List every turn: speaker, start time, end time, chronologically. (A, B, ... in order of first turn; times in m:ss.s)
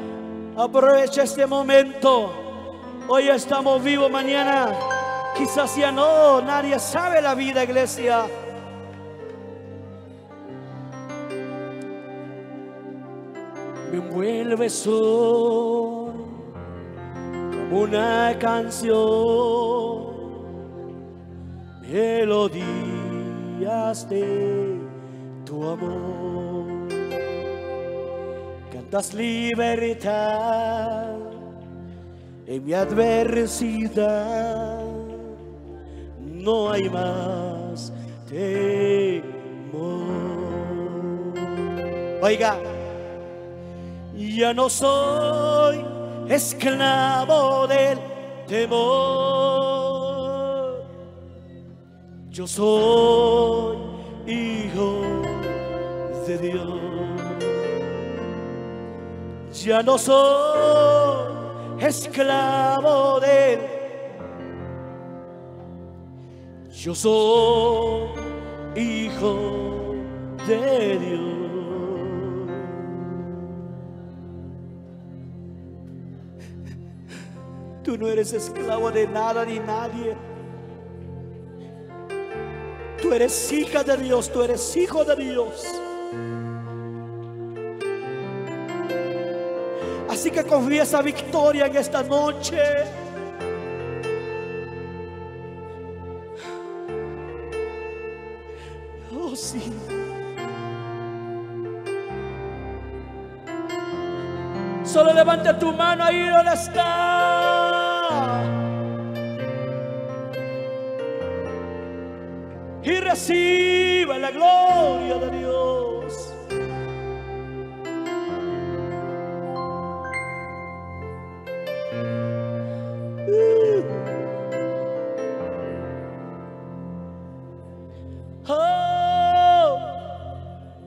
0:00.5-0:02.4 A
0:03.0-0:08.3 A
0:13.8-0:16.5 A
0:17.5-0:20.5 A
0:21.8-0:24.9 A
0:25.4-0:27.2 A
0:28.7-0:31.5 A
0:32.4-0:35.4 A
0:36.2-0:42.7 A
0:44.1-0:50.8 A
0:52.3-0:58.0 A
0:59.5-1:03.8 A
1:06.7-1:13.3 A
1:17.8-1:20.2 A
1:23.0-1:25.8 A
1:30.1-1:33.0 A
1:39.1-1:40.0 A
1:44.8-1:48.5 A
1:52.8-1:56.4 A
2:03.2-2:04.1 A
2:08.4-2:10.2 A